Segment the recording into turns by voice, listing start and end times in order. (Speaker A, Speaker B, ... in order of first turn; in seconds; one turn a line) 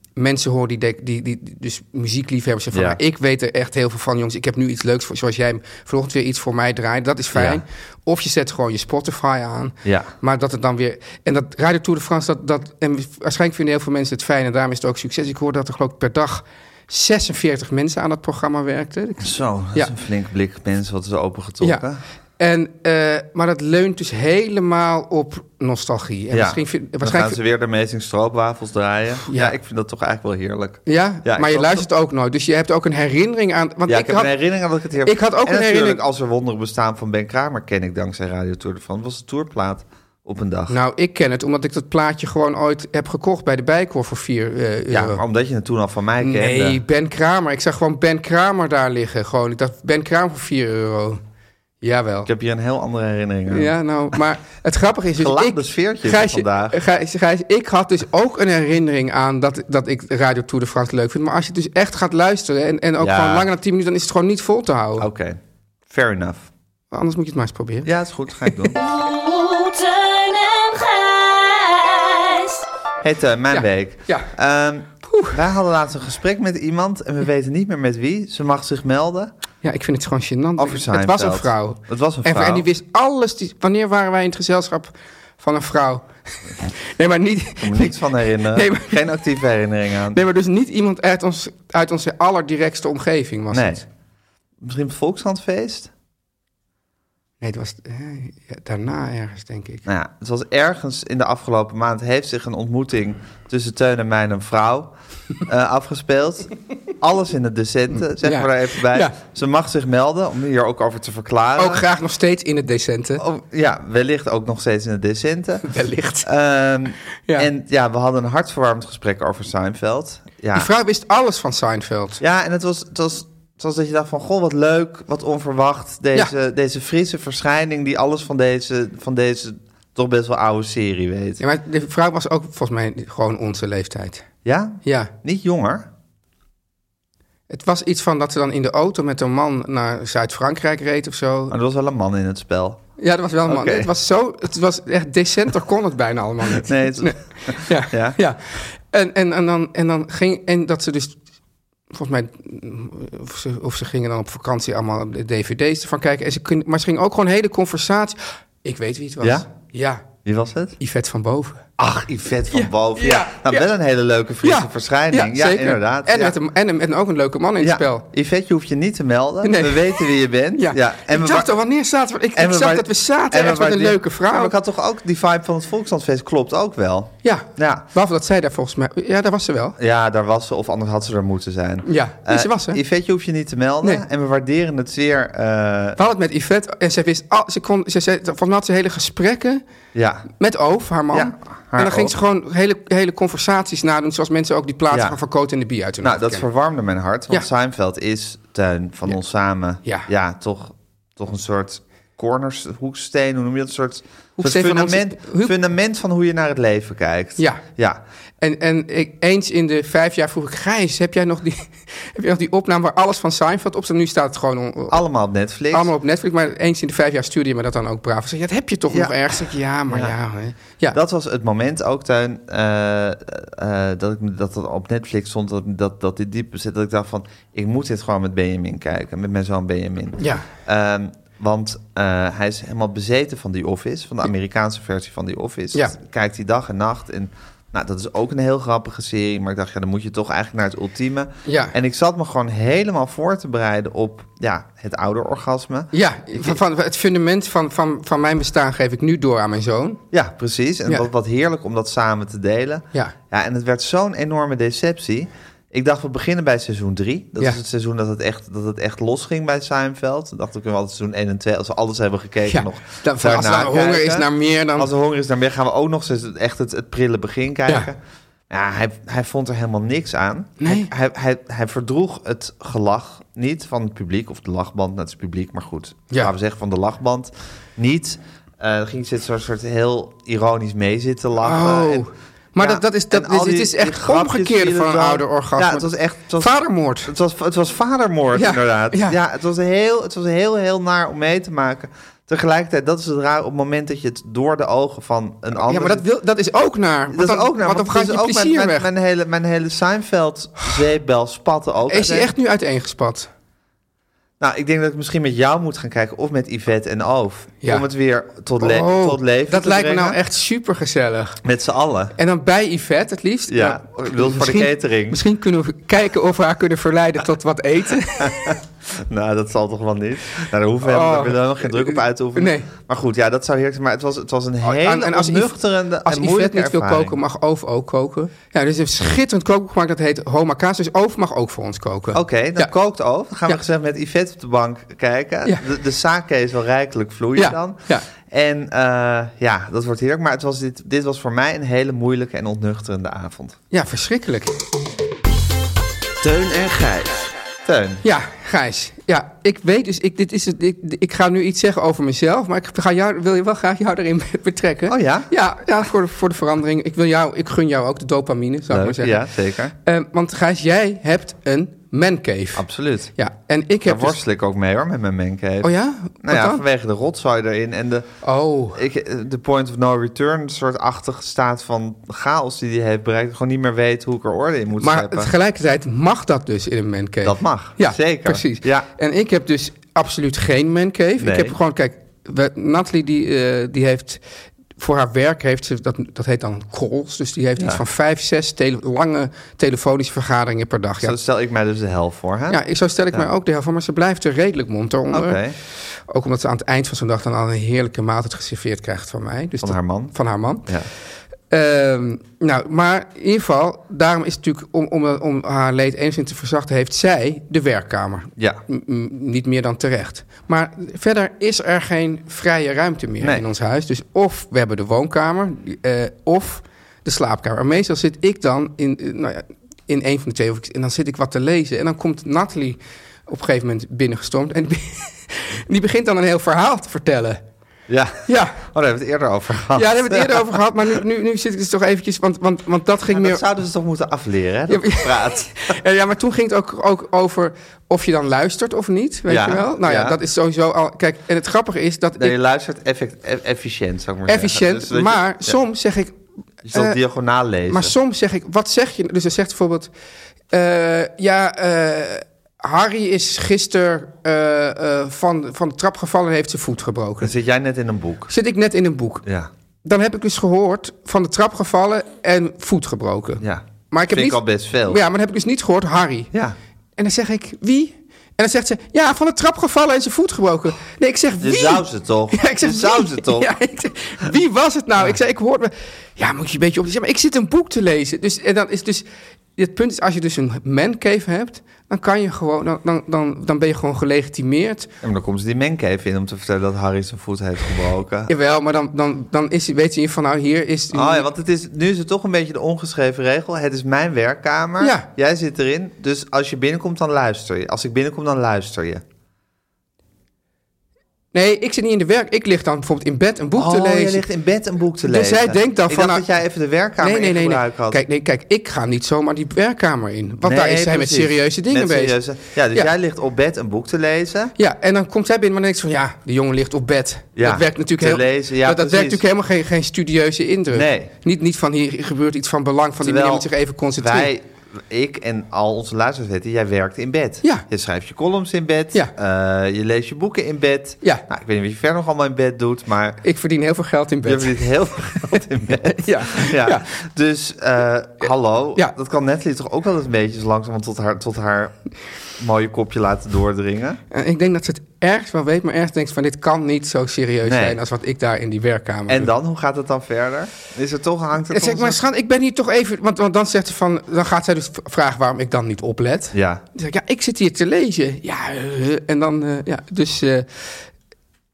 Speaker A: 0.2-19.9
Speaker B: 2.7-3.0
Speaker B: 7.3-7.6
Speaker B: 9.8-10.1
Speaker B: 19.2-22.0
Speaker A: 22.4-27.4
Speaker B: 26.3-31.9
Speaker A: 29.3-29.6
Speaker A: 30.9-34.3
Speaker B: 33.9-40.8
Speaker A: 35.0-36.0
Speaker A: 40.7-45.2
Speaker B: 44.9-46.8
Speaker A: 46.2-51.2
Speaker A: 51.8-52.3
Speaker B: 52.3-53.7
Speaker A: 53.5-65.1
Speaker B: 55.2-56.8
Speaker B: 63.0-63.5
Speaker B: 65.0-66.5
Speaker A: 66.9-68.7
Speaker B: 67.8-68.8
Speaker C: 68.8-72.7
Speaker B: 73.0-79.3
Speaker A: 73.5-74.3
Speaker A: 75.0-75.4
Speaker A: 79.6-88.0
Speaker B: 80.6-82.7
Speaker B: 87.6-90.2
Speaker A: 88.5-89.2
Speaker A: 90.1-93.8
Speaker B: 93.5-93.8
Speaker B: 94.6-95.9
Speaker A: 97.4-99.8
Speaker B: 99.9-111.9
Speaker A: 108.0-109.2
Speaker A: 111.6-113.2
Speaker B: 113.2-115.7
Speaker A: 115.7-116.3
Speaker B: 116.2-120.7
Speaker A: 120.5-122.2
Speaker B: 122.2-131.4
Speaker A: 131.4-134.2
Speaker B: 134.4-135.9
Speaker A: 134.8-135.1
Speaker A: 137.5-141.5
Speaker B: 141.5-142.8
Speaker A: 143.0-151.2
Speaker B: 143.5-143.9
Speaker B: 146.5-148.2
Speaker A: 151.9-160.0
Speaker B: 159.2-159.5
Speaker B: 160.2-160.8
Speaker A: 160.8-161.6
Speaker B: 161.8-166.4
Speaker A: 162.5-163.7
Speaker A: 164.4-168.1
Speaker B: 167.6-171.5
Speaker A: 169.4-174.5
Speaker B: 172.3-177.8
Speaker A: 177.2-179.8
Speaker B: 179.8-186.0
Speaker A: 181.8-182.8
Speaker A: 186.0-189.6
Speaker B: 189.9-190.3
Speaker A: 190.4-196.4
Speaker B: 191.1-192.2
Speaker B: 194.9-195.2
Speaker B: 196.0-208.0
Speaker A: 204.4-205.6
Speaker A: 208.4-215.0
Speaker B: 214.9-215.9
Speaker A: 215.7-221.0
Speaker B: 218.9-219.3
Speaker B: 219.9-220.1
Speaker B: 220.9-246.6
Speaker A: 230.2-230.5
Speaker A: 241.5-241.7
Speaker A: 245.9-250.0
Speaker B: 250.1-268.0
Speaker A: 262.5-264.9
Speaker B: 268.5-282.1
Speaker A: 270.6-270.9
Speaker A: 281.4-287.1
Speaker B: 282.6-296.1
Speaker A: 288.4-289.2
Speaker A: 295.6-298.9
Speaker B: 297.1-302.3
Speaker A: 301.9-303.3
Speaker B: 304.4-310.2
Speaker A: 308.6-311.4
Speaker B: 311.4-312.1
Speaker A: 312.2-318.6
Speaker B: 313.5-315.2
Speaker B: 318.2-327.2
Speaker A: 320.8-322.7
Speaker A: 324.6-332.7
Speaker B: 332.1-343.6
Speaker A: 337.4-338.1
Speaker A: 343.7-344.5
Speaker B: 346.2-348.0
Speaker A: 348.0-359.2
Speaker B: 354.9-355.3
Speaker B: 358.7-359.8
Speaker A: 359.9-362.6
Speaker B: 362.6-363.1
Speaker A: 363.2-364.2
Speaker B: 363.9-368.1
Speaker A: 365.6-366.6
Speaker A: 368.2-368.8
Speaker B: 368.7-375.3
Speaker A: 374.8-384.2
Speaker B: 377.2-378.9
Speaker B: 381.2-381.6
Speaker A: 384.8-391.2
Speaker B: 391.0-393.3
Speaker A: 392.5-400.7
Speaker B: 395.1-395.6
Speaker B: 399.6-400.1
Speaker A: 401.5-427.4
Speaker B: 427.9-430.6
Speaker A: 428.3-428.6
Speaker A: 429.8-433.4
Speaker B: 433.1-435.7
Speaker A: 434.7-442.4
Speaker B: 439.3-440.2
Speaker B: 442.2-445.6
Speaker A: 444.3-446.2
Speaker B: 446.6-447.9
Speaker A: 446.7-447.0
Speaker A: 447.7-449.9
Speaker A: 450.5-457.3
Speaker B: 457.2-458.3
Speaker A: 458.3-459.2
Speaker B: 459.2-459.5
Speaker A: 459.8-466.3
Speaker B: 463.4-465.0
Speaker A: 467.0-479.1
Speaker B: 471.4-473.5
Speaker A: 479.6-484.9
Speaker B: 485.0-488.3
Speaker A: 488.3-491.3
Speaker B: 490.9-499.0
Speaker A: 494.8-495.1
Speaker A: 501.3-504.2
Speaker B: 503.6-508.0
Speaker A: 505.1-506.2
Speaker A: 507.0-512.1
Speaker B: 510.4-514.5
Speaker A: 514.6-524.3
Speaker B: 517.4-519.2
Speaker B: 520.7-521.1
Speaker B: 523.0-533.2
Speaker A: 533.2-536.9
Speaker B: 534.2-541.8
Speaker B: 542.4-544.0
Speaker A: 544.1-549.3
Speaker B: 547.4-547.8
Speaker B: 549.1-552.0
Speaker A: 551.5-560.8
Speaker B: 556.3-556.6